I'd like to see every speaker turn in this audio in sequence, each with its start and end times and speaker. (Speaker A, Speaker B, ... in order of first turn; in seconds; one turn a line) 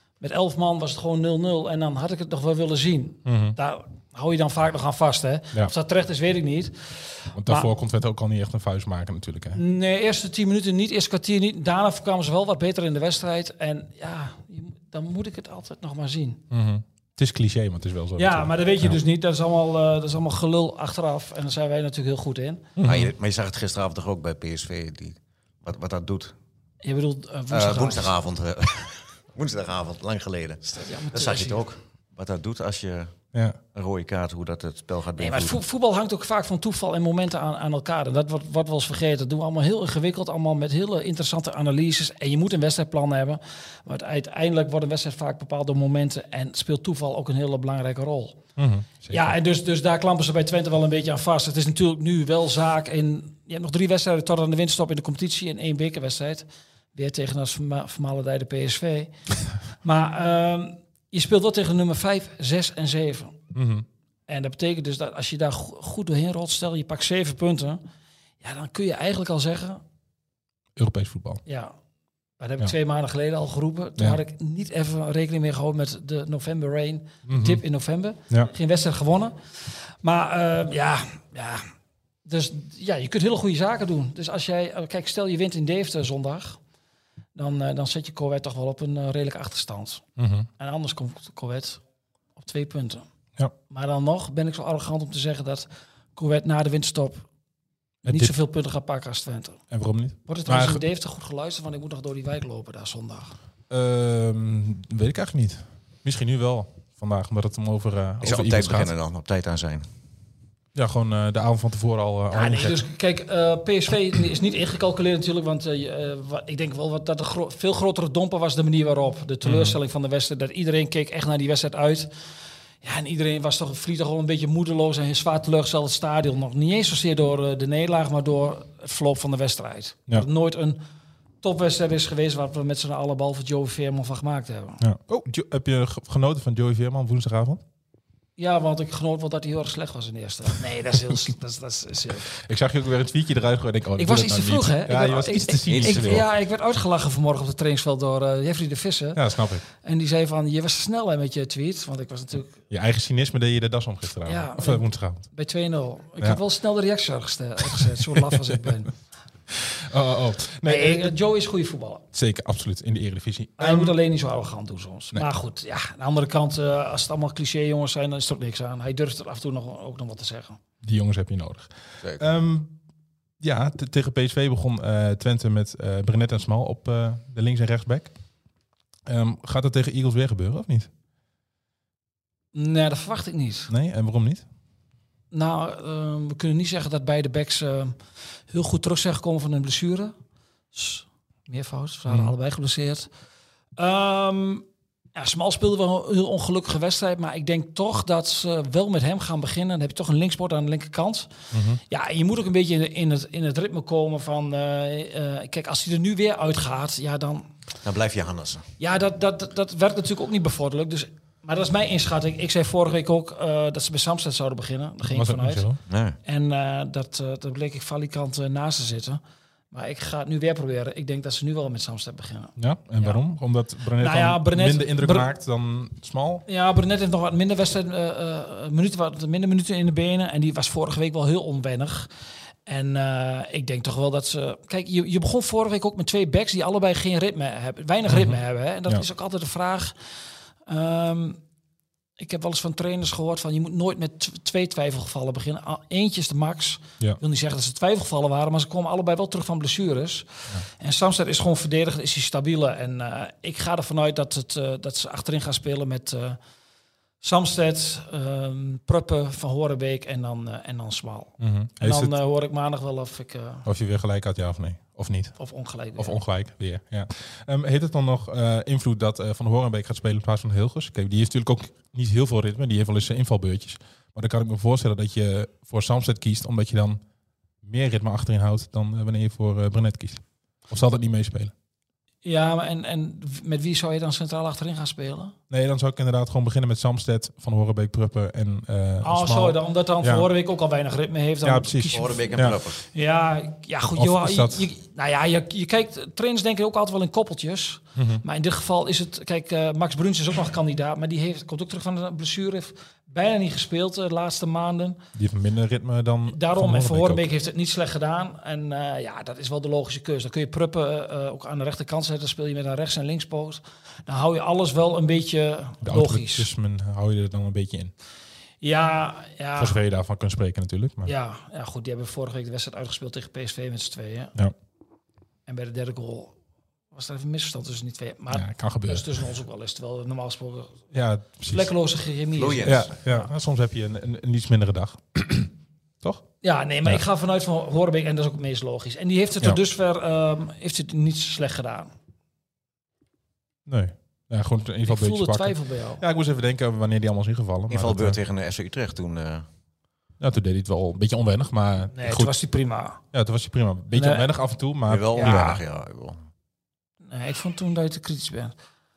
Speaker A: 0.2-7.7
Speaker B: 3.2-3.6
Speaker B: 7.3-9.6
Speaker A: 9.5-16.4
Speaker B: 16.5-19.0
Speaker A: 18.1-22.7
Speaker B: 22.8-23.1
Speaker C: 22.8-26.3
Speaker A: 26.8-28.1
Speaker C: 27.5-33.1
Speaker A: 30.7-31.6
Speaker C: 33.7-35.6
Speaker A: 35.2-48.4
Speaker B: 48.6-49.3
Speaker A: 49.1-59.1
Speaker A: 59.8-63.4
Speaker B: 63.5-63.8
Speaker A: 64.3-67.8
Speaker A: 68.4-69.8
Speaker B: 70.8-71.4
Speaker A: 71.5-71.7
Speaker A: 72.4-81.7
Speaker B: 77.3-77.6
Speaker A: 82.2-86.6
Speaker A: 87.3-90.0
Speaker B: 90.2-90.5
Speaker A: 90.6-91.8
Speaker A: 92.4-93.0
Speaker A: 93.7-97.2
Speaker B: 98.0-98.3
Speaker A: 98.0-99.6
Speaker B: 99.7-100.8
Speaker A: 100.3-103.4
Speaker B: 103.7-108.9
Speaker C: 108.2-109.8
Speaker B: 110.7-112.8
Speaker A: 112.3-122.1
Speaker B: 119.4-119.8
Speaker A: 122.8-130.8
Speaker A: 131.4-134.8
Speaker B: 134.8-137.6
Speaker A: 138.4-142.3
Speaker B: 142.3-146.2
Speaker A: 144.0-149.2
Speaker C: 145.7-146.2
Speaker B: 149.2-149.6
Speaker A: 149.7-152.5
Speaker B: 152.7-155.2
Speaker A: 154.2-158.9
Speaker B: 157.7-158.6
Speaker B: 159.5-161.1
Speaker A: 160.7-162.0
Speaker B: 162.1-163.9
Speaker A: 163.6-170.6
Speaker B: 170.8-172.8
Speaker B: 173.4-178.1
Speaker B: 179.1-180.9
Speaker A: 182.5-183.7
Speaker B: 183.7-184.4
Speaker A: 185.3-188.0
Speaker A: 188.5-190.1
Speaker A: 190.7-193.1
Speaker A: 193.8-201.3
Speaker B: 201.5-201.8
Speaker A: 201.9-207.5
Speaker C: 207.8-208.7
Speaker A: 208.8-215.7
Speaker B: 215.1-215.8
Speaker C: 215.9-216.2
Speaker A: 216.2-219.2
Speaker A: 219.7-223.2
Speaker B: 222.6-226.4
Speaker A: 224.0-225.3
Speaker A: 226.5-232.1
Speaker A: 232.7-239.9
Speaker B: 238.1-239.0
Speaker A: 240.7-241.4
Speaker A: 242.2-256.4
Speaker A: 257.2-263.6
Speaker B: 261.4-262.1
Speaker B: 263.6-265.3
Speaker A: 265.4-266.2
Speaker B: 266.0-277.0
Speaker B: 277.6-281.5
Speaker A: 282.2-285.3
Speaker B: 285.5-290.3
Speaker A: 289.0-305.0
Speaker B: 291.4-292.6
Speaker C: 291.9-292.8
Speaker B: 294.0-294.6
Speaker B: 297.9-298.2
Speaker B: 305.1-307.2
Speaker A: 306.3-316.5
Speaker B: 315.8-317.9
Speaker A: 318.6-319.8
Speaker B: 319.6-321.1
Speaker A: 321.0-324.3
Speaker A: 325.5-326.3
Speaker A: 326.9-330.8
Speaker B: 328.3-329.2
Speaker B: 330.9-331.7
Speaker A: 331.4-333.3
Speaker C: 332.4-332.9
Speaker B: 332.6-336.2
Speaker A: 336.4-341.9
Speaker B: 343.7-348.2
Speaker A: 344.9-346.0
Speaker C: 347.7-349.4
Speaker B: 350.2-352.3
Speaker A: 351.9-353.0
Speaker B: 353.1-355.6
Speaker A: 353.9-354.3
Speaker C: 354.9-356.2
Speaker A: 355.1-355.6
Speaker A: 357.1-358.5